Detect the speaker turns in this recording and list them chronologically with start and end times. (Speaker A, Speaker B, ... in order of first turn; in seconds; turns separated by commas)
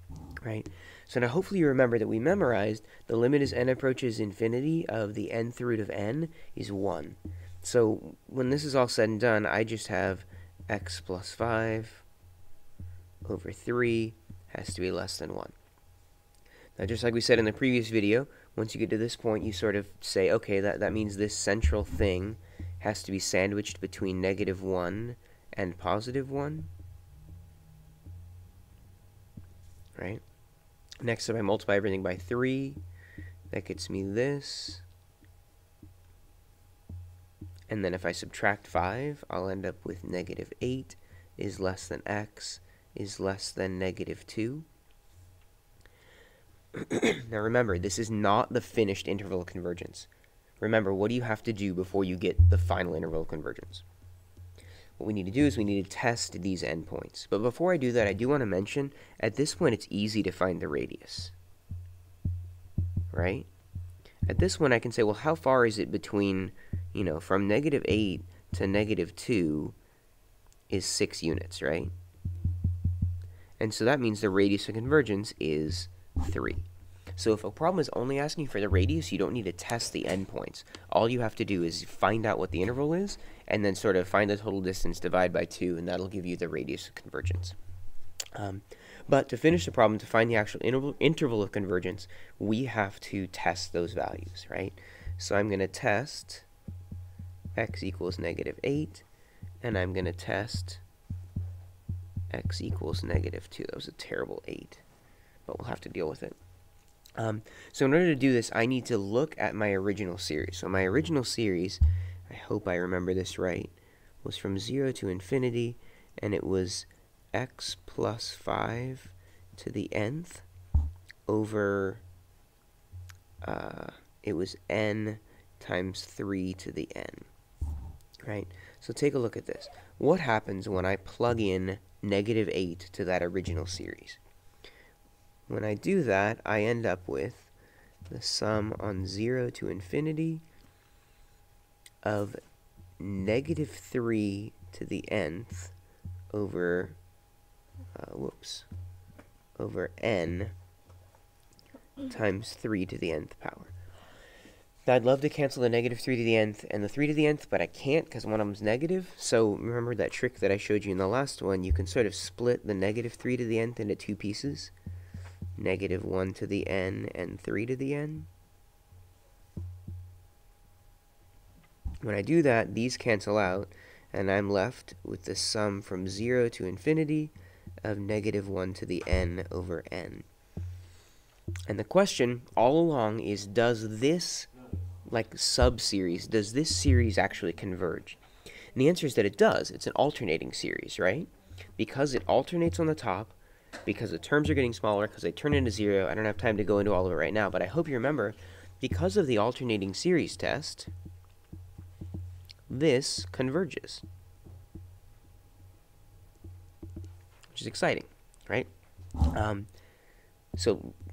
Speaker A: 0.4-12.1, Speaker A: 13.2-15.6, Speaker A: 16.8-26.7, Speaker A: 30.0-30.2, Speaker A: 31.0-32.8, Speaker A: 33.5-34.9, Speaker A: 37.7-44.7, Speaker A: 46.7-50.1, Speaker A: 50.6-53.8, Speaker A: 55.0-61.3, Speaker A: 63.1-63.5, Speaker A: 64.3-69.8, Speaker A: 70.7-71.9, Speaker A: 73.6-87.6, Speaker A: 88.3-96.5, Speaker A: 97.5-99.0, Speaker A: 99.6-100.8, Speaker A: 102.3-104.8, Speaker A: 105.5-106.4, Speaker A: 107.2-120.5, Speaker A: 121.3-122.0, Speaker A: 123.4-127.3, Speaker A: 128.2-134.2, Speaker A: 135.5-137.5, Speaker A: 138.1-140.4, Speaker A: 142.0-142.4, Speaker A: 143.0-145.7, Speaker A: 146.3-147.0, Speaker A: 147.9-148.7, Speaker A: 149.6-150.5, Speaker A: 152.1-153.7, Speaker A: 154.9-164.7, Speaker A: 165.6-168.3, Speaker A: 172.0-177.3, Speaker A: 177.8-180.3, Speaker A: 181.7-184.5, Speaker A: 185.1-188.2, Speaker A: 188.8-200.9, Speaker A: 202.7-204.1, Speaker A: 207.5-208.7, Speaker A: 209.2-209.7, Speaker A: 210.6-211.0